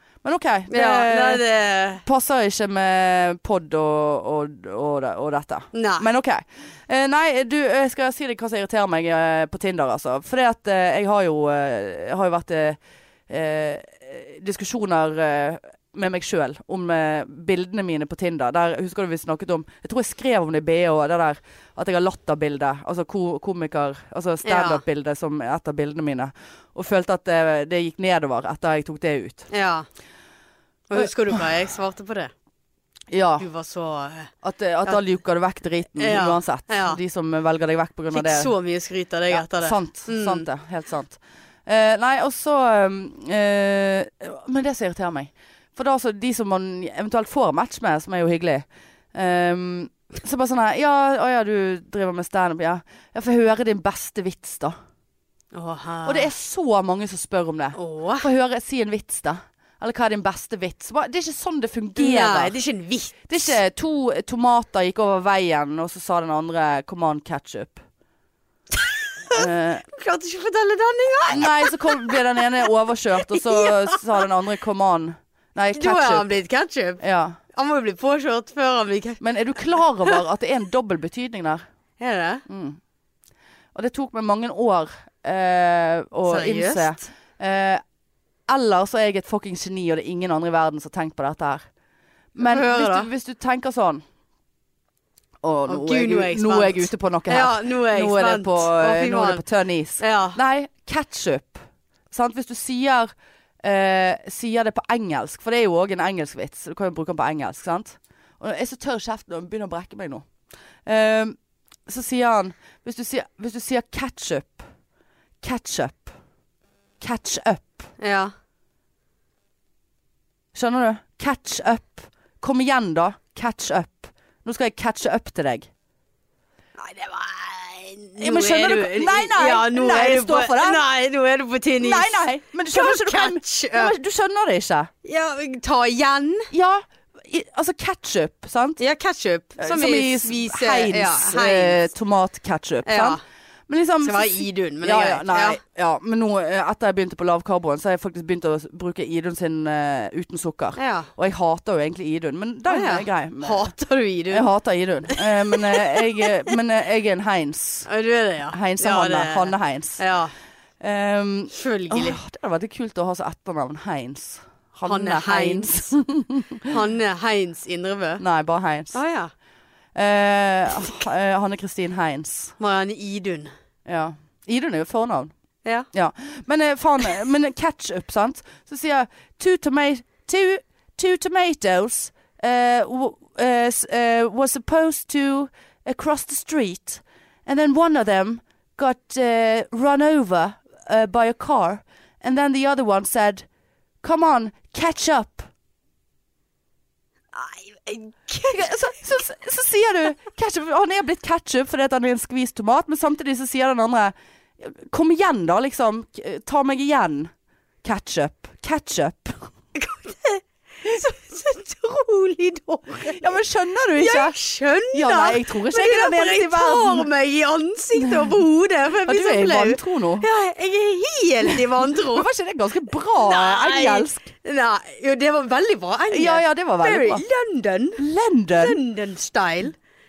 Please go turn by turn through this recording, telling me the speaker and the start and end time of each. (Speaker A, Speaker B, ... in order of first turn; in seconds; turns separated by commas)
Speaker A: 0.2-1.4, Speaker B: 0.7-2.0, Speaker A: 2.0-29.5, Speaker B: 5.7-6.1, Speaker B: 24.4-24.8, Speaker B: 29.5-29.9, Speaker B: 30.9-32.3, Speaker A: 30.9-31.4, Speaker A: 33.1-33.5, Speaker B: 33.4-34.3, Speaker A: 34.4-38.5, Speaker B: 36.0-37.0, Speaker B: 38.1-40.5, Speaker A: 39.3-54.7, Speaker B: 55.5-56.3, Speaker A: 56.0-62.5, Speaker B: 57.8-58.3, Speaker B: 62.0-63.6, Speaker A: 63.3-67.8, Speaker B: 68.7-72.4, Speaker A: 69.3-69.8, Speaker A: 71.3-76.3, Speaker B: 73.2-74.2, Speaker B: 75.7-77.0, Speaker A: 77.0-77.3, Speaker B: 77.5-79.2, Speaker A: 79.2-81.6, Speaker B: 82.0-82.4, Speaker A: 82.5-82.8, Speaker A: 83.7-87.8, Speaker B: 86.3-87.0, Speaker A: 88.5-91.7, Speaker A: 92.3-94.0, Speaker B: 92.4-93.1, Speaker A: 95.4-110.3, Speaker B: 95.7-99.4, Speaker B: 100.0-100.4, Speaker A: 110.8-114.7, Speaker A: 115.4-116.1, Speaker A: 117.0-117.9, Speaker B: 118.0-118.3, Speaker A: 120.5-125.7, Speaker B: 126.8-133.9, Speaker A: 128.2-130.8, Speaker A: 131.8-134.9, Speaker B: 135.0-136.5, Speaker A: 136.5-138.8, Speaker B: 138.8-141.8, Speaker A: 139.6-153.7, Speaker B: 142.8-143.2, Speaker B: 144.0-145.6, Speaker B: 150.8-151.1, Speaker B: 152.7-154.5, Speaker A: 154.3-157.9, Speaker B: 155.1-156.5, Speaker B: 157.8-160.3, Speaker A: 158.5-160.0, Speaker A: 160.8-166.7, Speaker B: 161.5-162.2, Speaker B: 164.8-165.7, Speaker B: 166.7-168.2, Speaker A: 168.2-169.0, Speaker B: 168.9-169.3, Speaker A: 169.9-172.5, Speaker B: 172.6-173.5, Speaker A: 173.8-175.3, Speaker A: 175.9-193.4, Speaker A: 194.0-195.5, Speaker B: 197.3-199.2, Speaker A: 198.5-207.3, Speaker A: 207.8-209.5, Speaker B: 209.7-213.3, Speaker A: 213.1-214.3, Speaker B: 213.9-222.3, Speaker A: 214.9-217.1, Speaker A: 218.0-218.3, Speaker A: 219.1-220.2, Speaker A: 221.4-224.3, Speaker B: 223.2-228.0, Speaker A: 226.1-227.2, Speaker A: 228.0-228.8, Speaker B: 228.6-229.7